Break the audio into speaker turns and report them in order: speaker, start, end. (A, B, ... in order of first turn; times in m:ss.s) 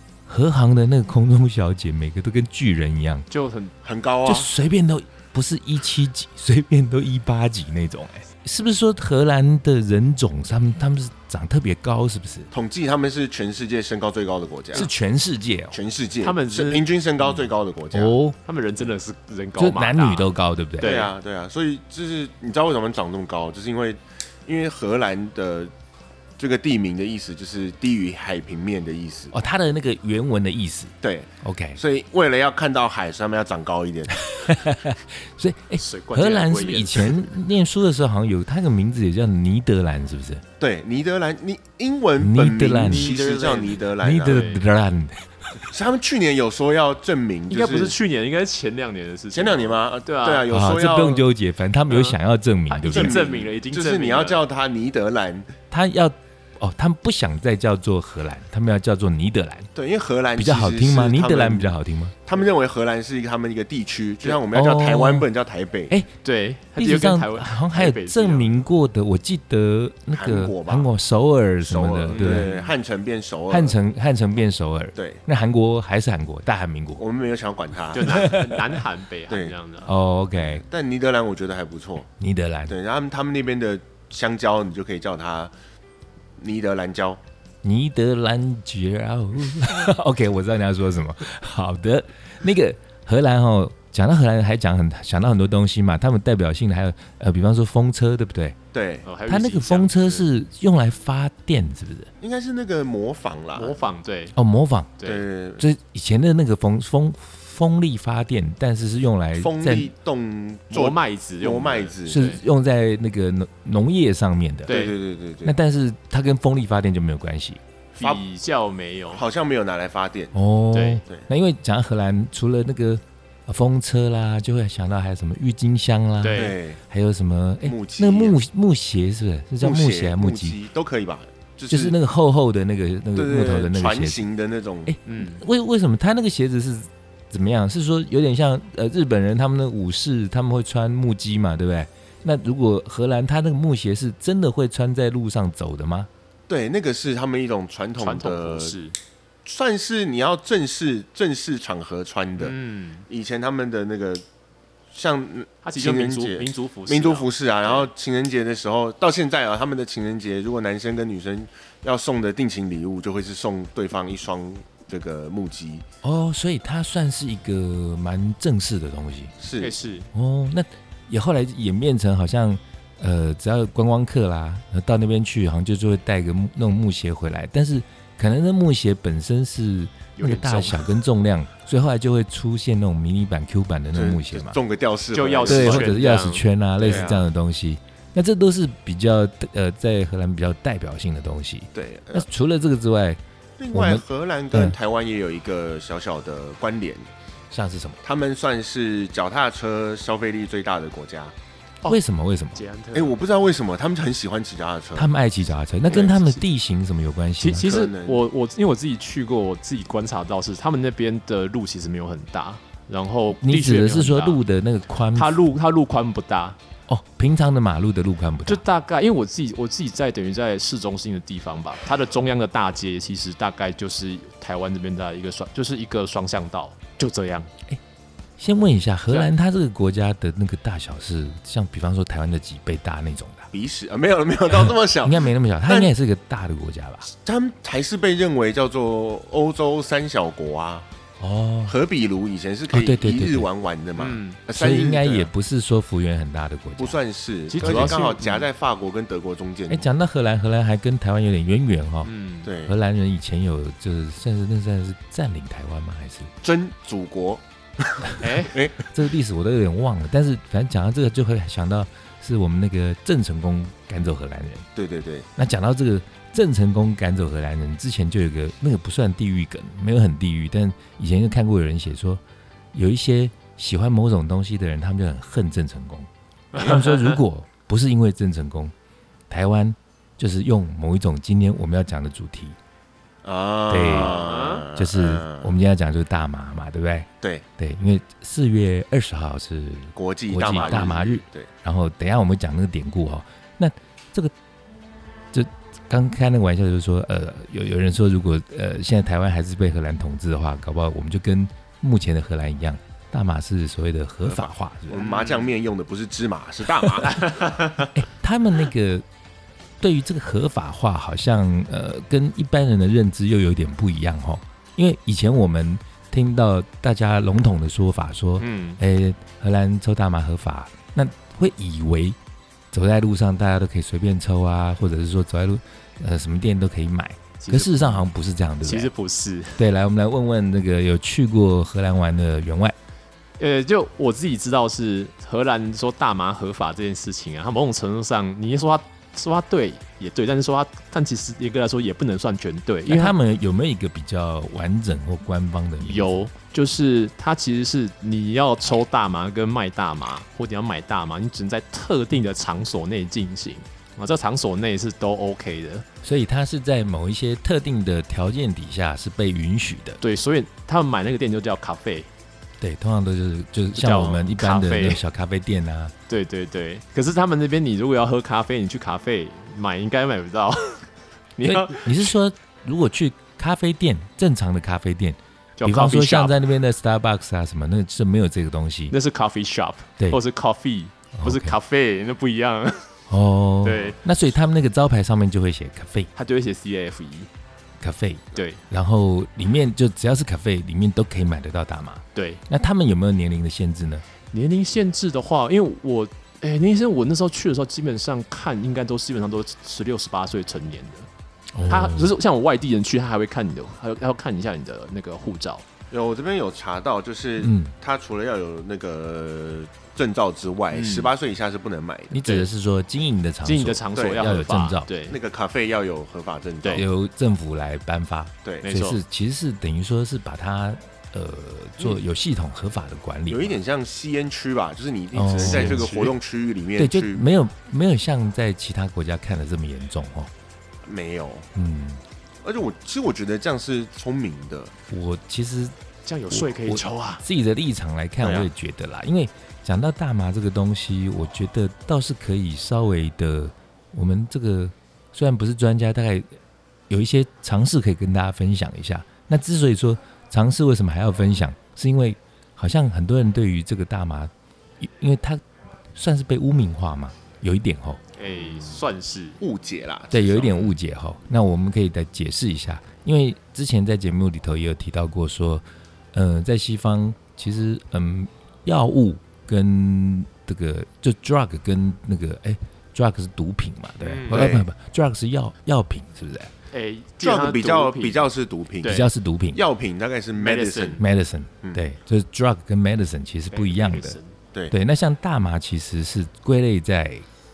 0:00.3-0:03.2 A
0:03.3-0:03.7 B
0:03.8-0:04.5 C
0:04.2-0:12.5 A
0:12.5-0:14.9 C
0:14.7-0:15.8 A
0:15.7-0:18.2 C
0:16.2-0:16.9 B
0:17.9-0:18.4 A
0:18.4-0:21.1 B
0:19.6-0:21.0 A
0:20.8-0:25.7 C
0:26.4-0:29.3 C
0:29.3-0:31.8 A
0:31.0-0:34.2 C
0:34.1-0:40.4 A
0:35.8-0:37.2 B
0:40.6-0:44.5 C
0:42.2-0:43.1 A
0:42.8-0:44.7 B
0:44.0-0:45.3 A
0:45.7-0:47.9 C
0:47.5-0:50.5 B
0:49.3-0:51.2 C
0:50.5-0:53.2 A
0:51.9-0:52.2 B
0:52.7-0:54.4 B
0:52.9-0:55.5 C
0:55.7-0:59.7 A
0:59.7-1:01.7 C
1:00.4-1:02.1 A
1:02.2-1:06.0 C
1:04.4-1:05.3 A
1:06.2-1:08.5 B
1:06.8-1:12.5 A
1:10.1-1:10.9 C
1:11.6-1:13.8 C
1:12.1-1:12.7 B
1:13.5-1:17.0 A
1:15.0-1:15.2 C
1:17.0-1:18.3 C
1:17.9-1:19.9 B
1:18.0-1:18.8 A
1:19.8-1:20.6 A
1:20.4-1:22.1 C
1:22.2-1:22.7 A
1:22.7-1:25.5 C
1:26.4-1:27.2 C
1:27.6-1:38.6 A
1:38.7-1:39.1 C
1:39.0-1:40.2 B
1:39.3-1:42.1 A
1:42.2-1:43.8 C
1:43.5-1:44.3 B
1:44.3-1:45.0 A
1:45.0-1:45.2 B
1:45.0-1:45.6 C
1:45.6-1:49.9 A
1:49.4-1:52.2 C
1:50.7-1:52.4 B
1:52.1-1:54.8 A
1:54.7-1:55.0 B
1:54.7-1:55.6 C
1:55.4-1:57.6 A
1:58.0-1:59.2 B
1:58.0-1:58.2 C
1:59.1-2:00.3 C
2:00.3-2:10.6 A
2:00.7-2:01.0 B
2:06.2-2:06.6 B
2:06.3-2:06.8 C
2:07.6-2:08.4 C
2:09.6-2:12.0 C
2:11.7-2:14.2 A
2:13.1-2:15.0 C
2:14.9-2:26.1 A
2:15.0-2:15.4 B
2:26.5-2:28.8 C
2:28.0-2:29.0 B
2:29.4-2:32.6 C
2:32.4-2:33.1 B
2:33.1-2:34.2 C
2:34.9-2:45.8 C
2:35.6-2:37.9 B
2:46.0-2:49.3 A
2:49.4-2:49.7 C
2:49.6-2:50.1 B
2:50.1-3:04.6 A
3:00.2-3:00.9 B
3:03.9-3:06.0 C
3:05.1-3:07.1 B
3:05.5-3:13.2 A
3:06.8-3:07.3 C
3:11.7-3:12.2 C
3:13.6-3:17.1 C
3:13.7-3:14.8 A
3:17.5-3:18.0 A
3:18.0-3:21.3 C
3:21.8-3:22.6 A
3:22.5-3:23.2 B
3:22.9-3:25.1 C
3:25.0-3:27.7 A
3:25.9-3:26.4 C
3:27.4-3:34.4 B
3:27.6-3:28.2 C
3:33.4-3:35.4 A
3:35.1-3:36.6 B
3:36.9-3:38.6 A
3:38.4-3:47.5 B
3:48.4-3:53.5 A
3:53.5-3:55.9 C
3:55.0-3:57.1 A
3:57.1-4:00.8 C
4:01.2-4:01.7 A
4:01.6-4:05.3 C
4:02.7-4:03.5 A
4:04.0-4:04.4 B
4:04.5-4:07.0 A
4:06.8-4:09.8 C
4:07.5-4:08.5 B
4:07.6-4:08.0 A
4:09.7-4:12.1 A
4:12.0-4:12.5 B
4:12.4-4:12.7 C
4:12.6-4:16.3 A
4:16.4-4:18.8 C
4:18.2-4:18.5 B
4:18.8-4:24.7 A
4:24.8-4:25.3 C
4:25.4-4:32.2 A
4:32.7-4:38.7 A
4:36.5-4:37.2 B
4:39.3-4:42.6 A
4:43.2-4:45.5 C
4:43.7-4:54.3 A
4:44.0-4:44.7 B
4:49.9-4:51.5 C
4:50.6-4:50.9 B
4:55.3-5:05.1 A
5:04.2-5:07.4 C
5:05.0-5:05.5 B
5:07.1-5:07.8 B
5:07.9-5:09.0 A
5:09.8-5:22.2 A
5:18.4-5:18.8 B
5:22.7-5:28.9 A
5:27.4-5:28.0 B
5:28.6-5:29.6 B
5:29.6-5:32.8 A
5:33.4-5:43.1 B
5:42.9-5:46.3 A
5:45.8-5:55.8 B
5:56.0-6:00.0 A
6:00.0-6:02.1 B
6:02.6-6:05.9 A
6:03.7-6:05.0 B
6:06.1-6:10.8 B
6:11.4-6:12.1 B
6:11.4-6:18.9 A
6:15.6-6:16.4 B
6:18.9-6:22.9 B
6:21.1-6:21.6 A
6:23.1-6:26.1 A
6:23.6-6:24.0 B
6:26.2-6:27.3 B
6:27.8-6:34.0 A
6:28.3-6:28.6 B
6:32.1-6:32.4 B
6:34.3-6:41.1 B
6:41.5-6:42.1 A
6:41.6-6:45.6 B
6:45.9-6:52.2 C
6:47.4-6:47.7 A
6:50.7-6:51.1 B
6:52.1-6:54.9 A
6:52.2-6:52.5 B
6:53.4-6:55.2 B
6:53.9-6:54.3 C
6:55.0-6:56.8 C
6:56.7-7:03.6 A
6:58.6-6:59.0 B
7:03.3-7:07.2 C
7:05.1-7:06.0 A
7:05.4-7:06.1 B
7:06.8-7:10.3 A
7:10.8-7:11.5 C
7:11.5-7:12.0 A
7:12.4-7:14.7 C
7:14.9-7:15.7 A
7:16.0-7:17.2 B
7:16.3-7:26.2 A
7:18.2-7:18.5 C
7:26.9-7:35.4 A
7:35.9-7:38.0 A
7:38.2-7:39.4 B
7:39.4-7:40.7 C
7:40.1-7:56.5 A
7:54.0-7:54.5 B
7:54.2-7:54.7 C
7:56.7-7:58.3 B
7:57.2-8:01.0 C
7:58.8-7:59.1 B
7:58.8-7:59.6 A
8:00.3-8:01.0 B
8:01.0-8:04.2 A
8:03.5-8:04.3 B
8:04.7-8:07.2 A